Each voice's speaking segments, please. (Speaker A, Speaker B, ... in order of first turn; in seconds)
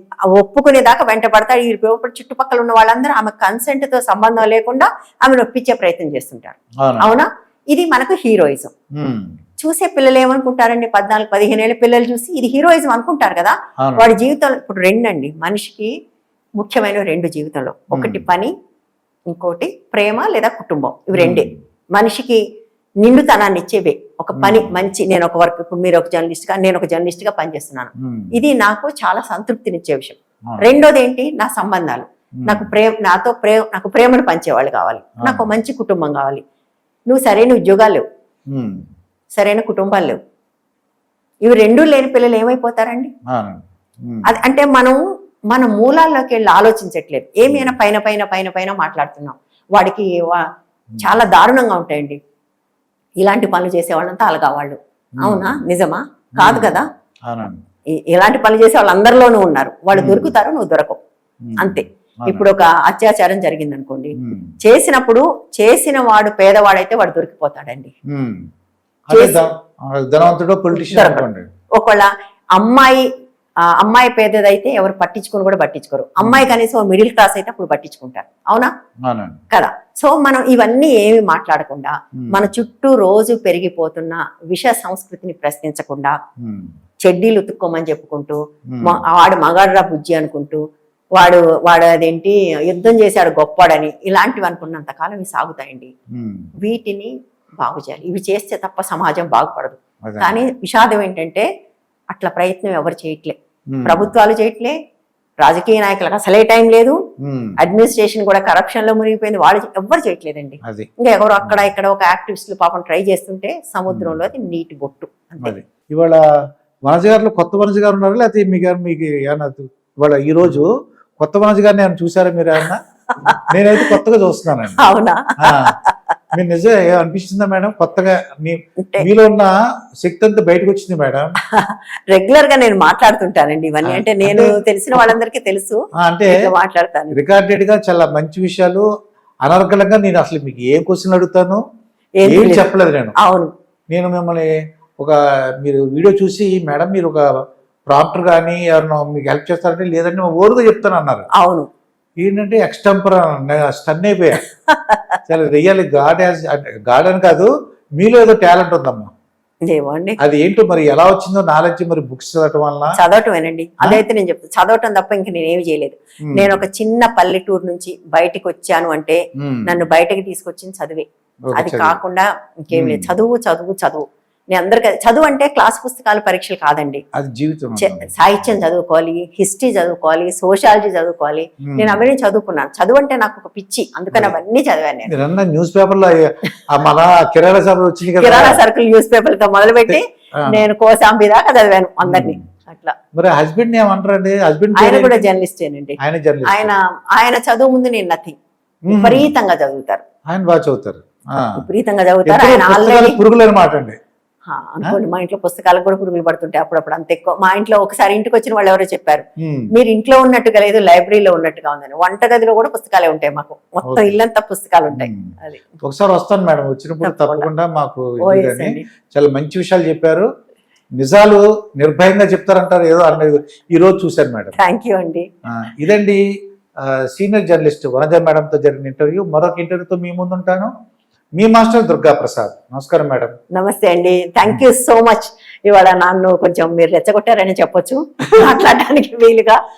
Speaker A: 0.3-8.7, 9.6-15.9, 16.6-18.5, 19.3-22.4, 23.0-36.4, 37.1-38.0, 39.4-40.2, 41.5-43.1, 44.2-45.0, 45.5-50.5, 51.0-52.2, 53.2-56.9, 58.1-61.0, 61.6-67.9, 69.1-69.5, 70.7-73.0, 73.7-78.7, 79.5-86.2, 87.0-90.6, 91.2-95.9, 96.6-101.5, 102.1-104.8, 105.4-107.0, 107.6-115.5, 123.2-124.0, 124.8-126.0, 128.8-129.1, 131.5-137.2, 142.2-143.5, 151.4-151.7, 154.7-155.2, 159.7-160.2, 162.9-177.0, 177.8-185.1, 188.2-192.9, 194.8-198.4, 198.9-200.0, 201.6-203.2, 204.5-215.7, 217.0-217.5, 218.2-218.8, 224.6-225.3, 233.5-239.6
Speaker B: 6.8-7.1, 9.0-9.3, 13.8-14.1, 17.9-18.2, 21.1-21.6, 24.4-24.7, 28.0-28.3, 32.4-32.7, 38.5-38.8, 43.3-44.3, 47.5-47.8, 55.2-55.6, 56.4-57.6, 59.9-60.3, 61.5-62.5, 64.2-64.5, 68.1-68.4, 69.1-71.5, 76.2-76.5, 79.1-79.4, 82.2-82.5, 86.4-86.7, 88.7-89.0, 96.1-96.5, 100.0-100.4, 103.7-104.1, 107.2-107.5, 111.4-111.7, 113.9-114.2, 115.4-116.2, 116.9-120.7, 121.2-122.8, 123.5-124.8, 125.4-125.7, 126.3-129.5, 130.0-131.3, 133.8-134.6, 136.0-136.3, 137.1-138.9, 139.4-141.6, 142.3-143.2, 143.9-144.5, 145.0-147.2, 147.9-151.3, 152.2-154.4, 155.3-159.1, 160.2-163.0, 169.4-169.7, 171.5-172.0, 172.7-173.1, 177.2-178.1, 181.7-182.0, 185.1-188.6, 189.9-190.6, 192.1-192.4, 193.1-195.3, 196.0-196.8, 198.9-199.3, 200.3-201.5, 202.3-204.0, 209.4-209.7, 213.9-214.1, 214.9-220.3, 221.0-224.6, 225.5-226.2, 226.8-230.7, 231.4-233.3